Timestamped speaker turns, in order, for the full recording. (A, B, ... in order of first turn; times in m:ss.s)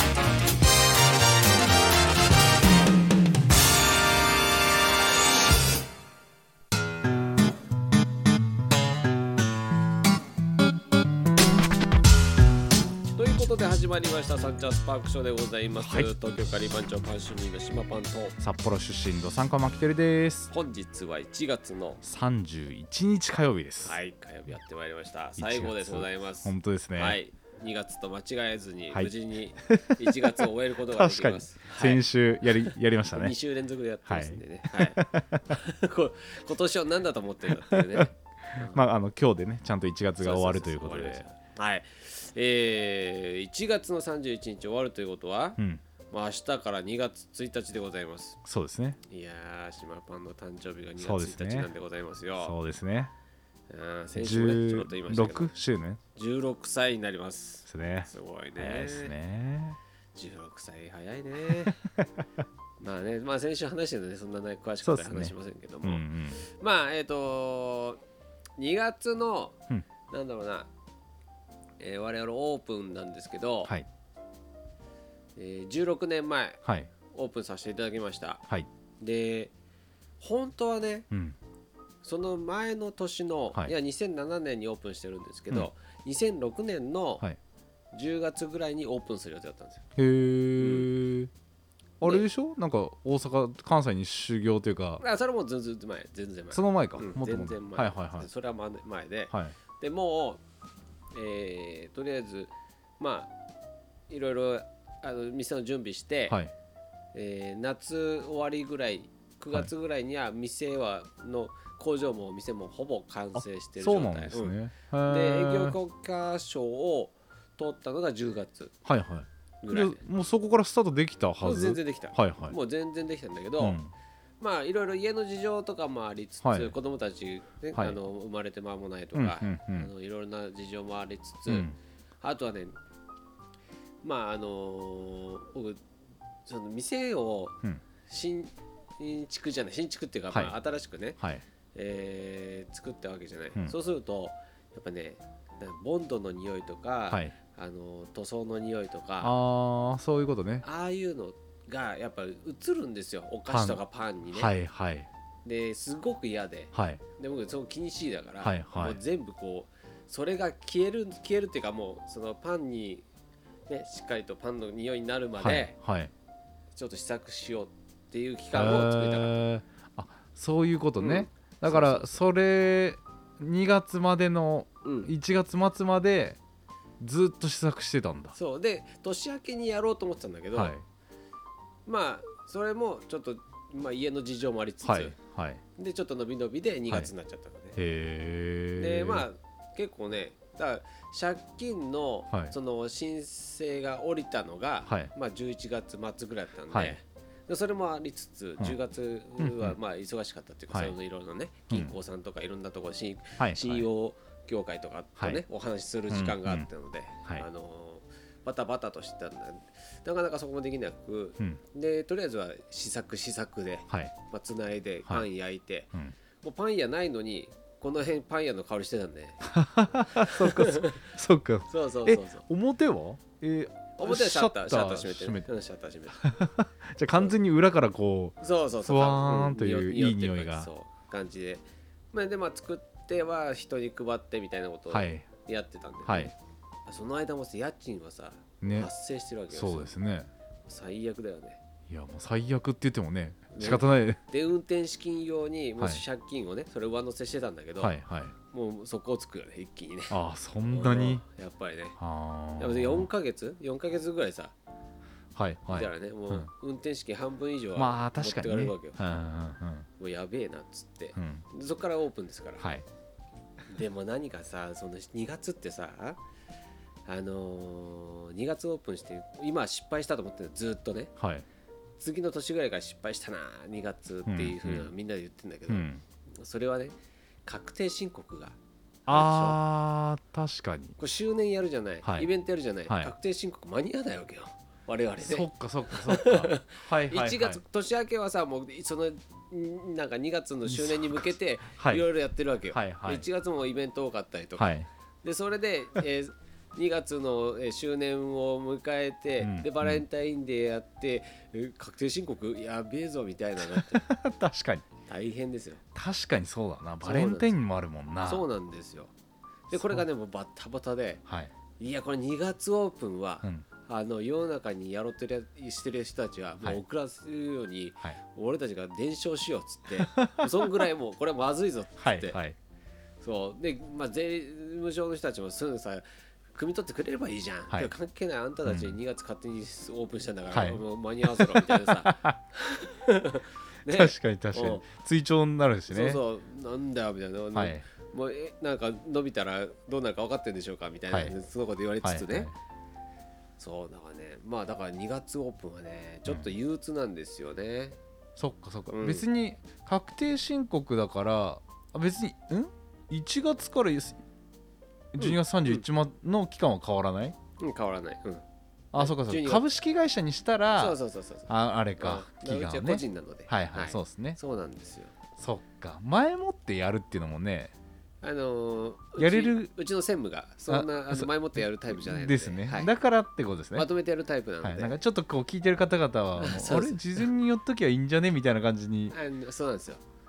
0:13.2-0:18.4 A
0:15.8-0:16.1 B
0:18.4-0:20.5 B
0:20.5-0:22.0 A
0:22.0-0:24.0 B
0:23.8-0:32.0 A
0:25.4-0:27.2 B
0:28.9-0:33.4 B
0:32.6-0:38.8 A
0:34.1-0:35.6 B
0:37.7-0:41.3 B
0:40.2-0:45.6 A
0:46.1-0:48.4 A
0:48.4-0:49.0 B
0:49.0-0:52.6 A
0:51.0-0:51.7 B
0:52.4-0:53.1 B
0:53.7-0:55.5 A
0:54.2-0:56.0 B
0:56.2-0:59.1 A
0:57.7-0:59.8 B
1:00.2-1:01.8 A
1:01.5-1:02.0 B
1:02.8-1:08.0 A
1:04.8-1:06.4 B
1:08.6-1:09.6 A
1:10.1-1:10.7 A
1:11.8-1:13.7 A
1:15.4-1:18.4 A
1:16.6-1:16.9 B
1:19.0-1:19.5 A
1:20.2-1:21.1 A
1:21.1-1:21.4 B
1:22.0-1:27.2 A
1:27.9-1:29.8 A
1:30.0-1:31.3 B
1:30.6-1:30.9 A
1:32.0-1:35.0 B
1:35.0-1:40.4 A
1:36.5-1:38.3 B
1:39.3-1:39.6 B
1:41.1-1:43.3 A
1:44.1-1:46.4 A
1:47.1-1:58.7 A
1:53.4-1:55.8 B
1:58.8-2:02.6 B
1:59.6-2:00.0 A
2:01.4-2:03.8 A
2:03.6-2:03.9 B
2:04.4-2:12.8 A
2:06.4-2:06.7 B
2:09.2-2:09.9 B
2:11.5-2:11.8 B
2:14.0-2:15.8 A
2:16.5-2:21.2 A
2:21.2-2:21.4 B
2:21.7-2:29.3 A
2:29.2-2:30.6 B
2:30.6-2:34.5 A
2:33.5-2:33.8 B
2:34.3-2:35.1 B
2:35.4-2:43.1 A
2:36.7-2:37.0 B
2:38.4-2:39.0 B
2:43.7-2:45.8 A
2:45.4-2:46.1 B
2:46.8-2:49.4 A
2:48.5-2:56.4 B
2:51.0-2:52.2 A
2:54.8-2:55.1 A
2:57.0-2:58.4 B
2:58.4-3:00.7 A
3:00.5-3:00.8 B
3:01.9-3:05.2 A
3:04.8-3:05.6 B
3:05.8-3:07.8 A
3:07.8-3:09.3 B
3:08.8-3:39.5 A
3:16.7-3:17.0 B
3:19.4-3:19.8 B
3:23.4-3:23.9 B
3:25.2-3:25.4 B
3:26.1-3:26.7 B
3:39.4-3:45.5 B
3:40.1-3:41.1 A
3:41.7-3:42.4 A
3:44.0-3:46.3 A
3:46.2-3:50.7 B
3:48.4-3:56.4 A
3:54.9-3:55.3 B
3:56.1-3:56.3 B
3:56.9-3:59.9 A
3:58.6-3:58.9 B
3:59.5-4:00.3 B
4:00.7-4:01.6 A
4:01.9-4:04.2 B
4:03.5-4:08.0 A
4:07.8-4:08.3 B
4:08.5-4:10.1 A
4:10.1-4:11.2 B
4:10.7-4:12.0 A
4:12.0-4:13.1 B
4:12.6-4:14.5 A
4:15.4-4:16.5 B
4:15.7-4:19.3 A
4:17.8-4:19.9 B
4:20.0-4:22.7 A
4:21.2-4:21.4 B
4:22.6-4:22.8 B
4:23.7-4:26.2 A
4:27.1-4:31.1 A
4:31.2-4:31.5 B
4:32.0-4:36.9 A
4:34.3-4:34.9 B
4:35.7-4:36.0 B
4:37.5-4:38.6 A
4:39.1-4:41.0 B
4:39.1-4:39.6 A
4:41.0-4:54.7 A
4:42.0-4:42.3 B
4:42.9-4:43.1 B
4:45.2-4:47.6 B
4:50.7-4:52.0 B
4:52.7-4:53.2 B
4:54.6-4:54.9 B
4:55.2-5:04.1 A
4:59.4-5:00.0 B
5:03.6-5:04.8 B
5:05.1-5:05.8 A
5:06.0-5:08.4 B
5:07.0-5:07.5 A
5:08.2-5:09.1 A
5:09.7-5:10.0 B
5:09.7-5:11.2 A
5:11.3-5:11.5 B
5:11.8-5:22.4 A
5:20.0-5:20.8 B
5:22.0-5:22.6 B
5:23.2-5:26.0 A
5:26.6-5:34.8 A
5:28.7-5:29.0 B
5:30.5-5:30.8 B
5:31.4-5:32.4 B
5:33.9-5:36.2 B
5:35.9-5:42.5 A
5:37.5-5:37.9 B
5:42.0-5:42.5 B
5:43.6-5:48.0 A
5:48.4-5:54.2 B
5:48.9-5:49.2 A
5:55.1-5:57.4 B
5:55.2-5:55.8 A
5:57.6-5:58.4 A
5:58.9-6:04.4 B
5:59.0-5:59.6 A
6:00.7-6:05.1 A
6:05.4-6:07.7 B
6:08.2-6:12.9 A
6:09.2-6:09.7 B
6:10.7-6:11.3 B
6:11.9-6:13.9 B
6:13.8-6:15.0 A
6:14.6-6:19.2 B
6:16.4-6:17.2 A
6:19.1-6:20.0 A